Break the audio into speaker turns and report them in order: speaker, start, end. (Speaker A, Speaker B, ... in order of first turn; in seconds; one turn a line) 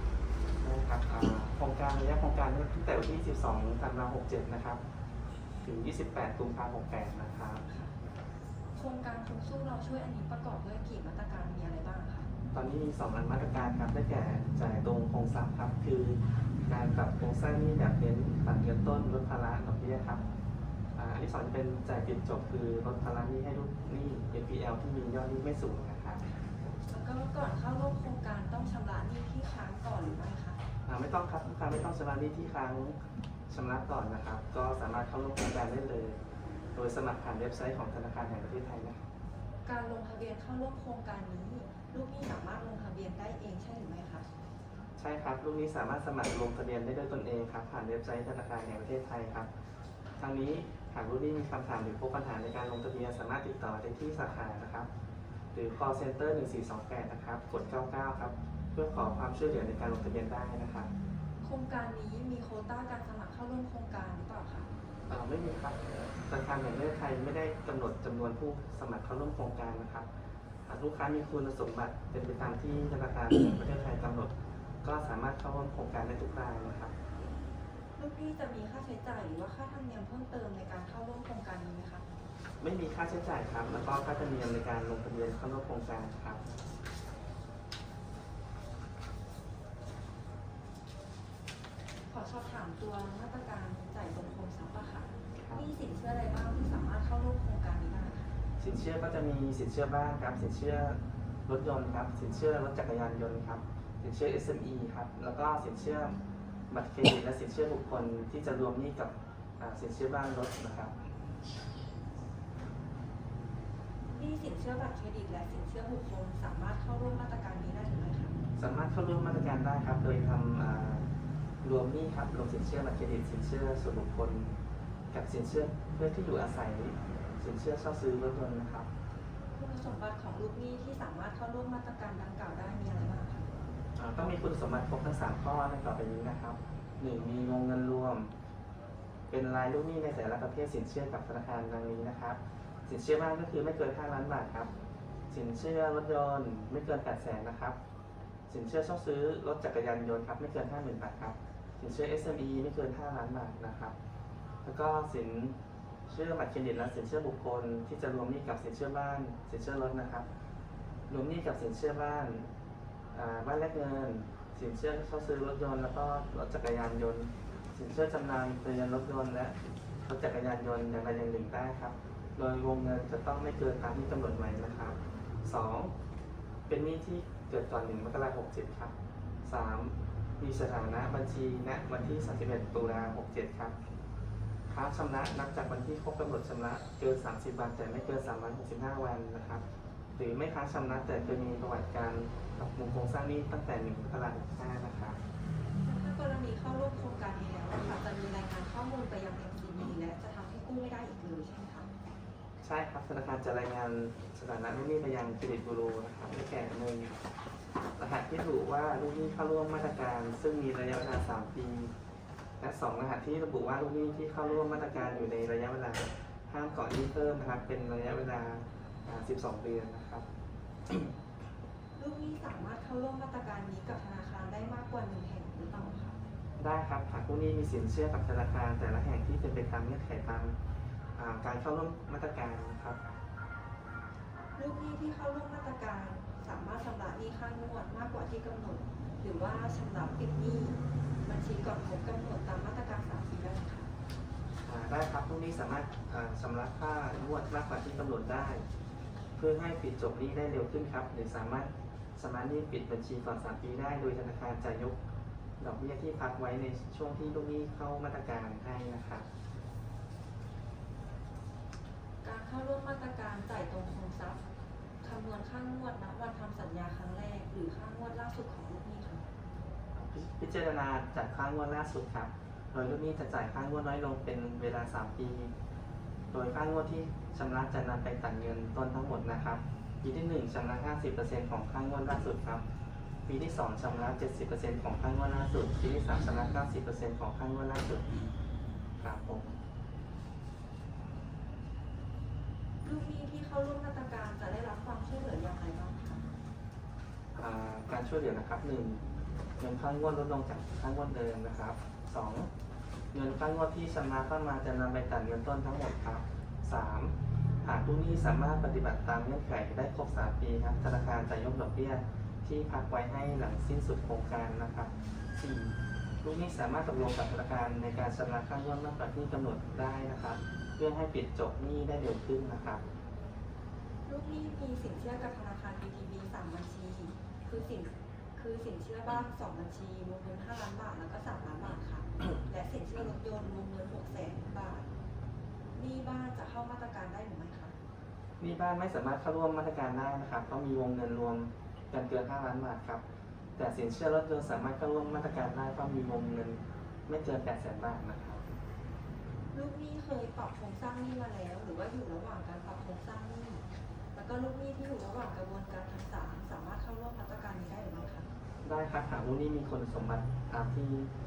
Speaker A: 0.6-4.8
Speaker A: 5.6-7.6
Speaker B: 8.8-12.3
Speaker A: 12.5-20.2
Speaker A: 21.0-26.2
Speaker B: 26.9-30.6
Speaker A: 30.9-33.0
Speaker A: 33.5-36.2
Speaker A: 36.8-39.0
Speaker B: 39.7-44.3
Speaker A: 45.0-49.5
Speaker A: 50.2-54.9
Speaker A: 55.5-60.9
Speaker B: 61.4-64.7
Speaker A: 65.1-70.1
Speaker A: 70.7-74.3
Speaker A: 74.8-76.9
Speaker B: 78.0-82.0
Speaker A: 82.6-86.4
Speaker B: 92.1-98.3
Speaker A: 98.6-106.2
Speaker A: 106.7-111.0
Speaker B: 114.1-118.4
Speaker A: 118.6-121.1
Speaker A: 121.6-124.5
Speaker A: 125.1-128.9
Speaker B: 129.6-133.5
Speaker A: 134.0-138.3
Speaker A: 139.3-144.7
Speaker A: 145.3-147.8
Speaker A: 148.5-153.9
Speaker A: 154.7-155.6
Speaker A: 156.1-160.3
Speaker A: 161.1-162.5
Speaker A: 163.1-169.6
Speaker A: 170.1-175.9
Speaker A: 176.7-178.9
Speaker A: 179.5-183.7
Speaker A: 184.7-189.6
Speaker A: 190.2-195.2
Speaker B: 195.8-201.9
Speaker A: 202.6-207.1
Speaker A: 208.0-211.9
Speaker A: 212.6-220.2
Speaker B: 222.0-226.2
Speaker A: 226.6-230.6
Speaker A: 231.2-233.0
Speaker B: 234.6-243.9
Speaker A: 244.7-248.7
Speaker A: 249.4-255.0
Speaker A: 255.6-259.3
Speaker B: 262.2-264.4
Speaker B: 265.0-269.3
Speaker A: 269.9-275.5
Speaker A: 276.3-282.6
Speaker A: 283.3-288.2
Speaker A: 289.0-289.5
Speaker B: 292.8-296.2
Speaker A: 297.4-299.0
Speaker A: 299.6-302.5
Speaker A: 303.1-322.8
Speaker B: 324.1-334.9
Speaker B: 335.8-337.7
Speaker A: 338.4-343.0
Speaker A: 343.6-348.4
Speaker B: 349.5-353.6
Speaker B: 354.1-358.3
Speaker A: 358.6-361.1